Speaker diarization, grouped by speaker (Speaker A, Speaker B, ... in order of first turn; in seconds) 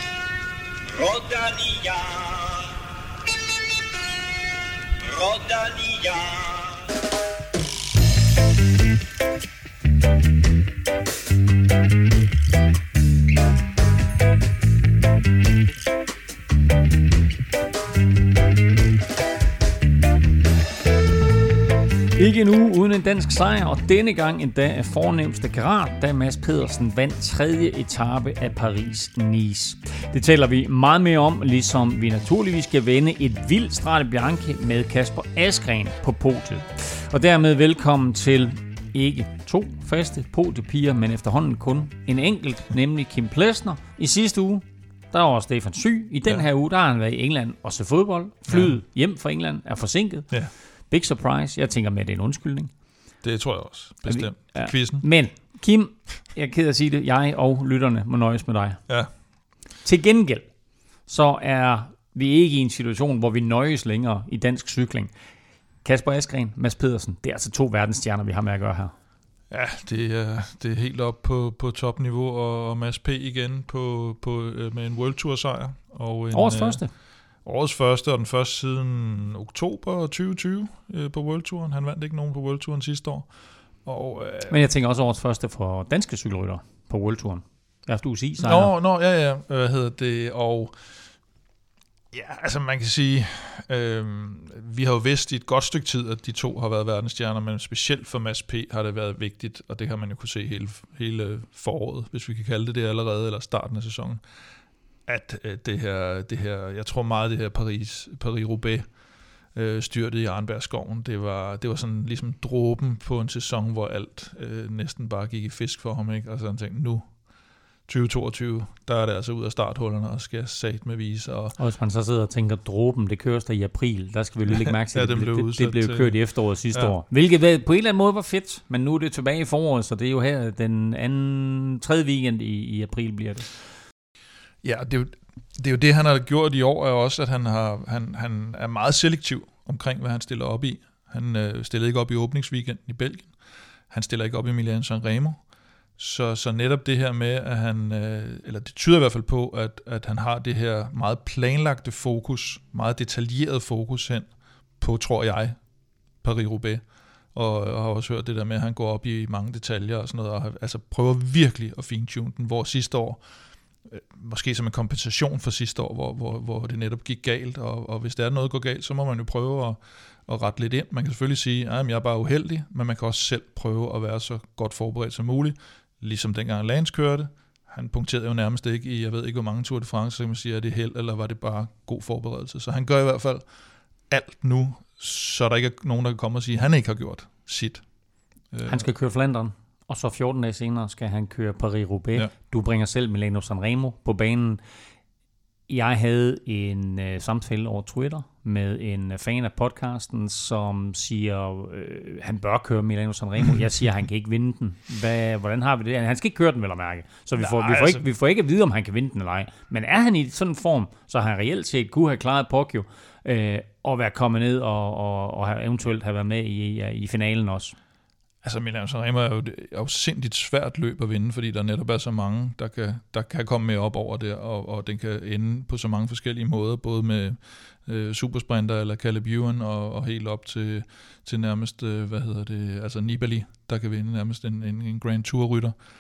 Speaker A: 0.9-2.7, 5.0-6.8
Speaker B: 22.2-50.3, 50.9-52.7, 54.1-58.8, 59.8-60.5, 61.1-65.1, 65.8-68.9, 76.3-76.9, 84.5-88.7, 121.6-133.5, 188.7-194.6, 195.7-217.8
Speaker C: 48.5-48.8, 53.2-55.1, 69.5-76.8, 77.4-83.3, 83.8-84.6, 88.4-90.9, 92.1-104.2, 105.1-108.9, 109.5-117.2, 117.9-121.6, 124.7-126.2, 126.7-127.0, 134.6-143.3, 143.9-145.4, 146.0-155.6, 156.2-163.2, 163.8-183.5, 184.1-187.8, 188.5-188.9, 207.4-208.1, 218.4-235.8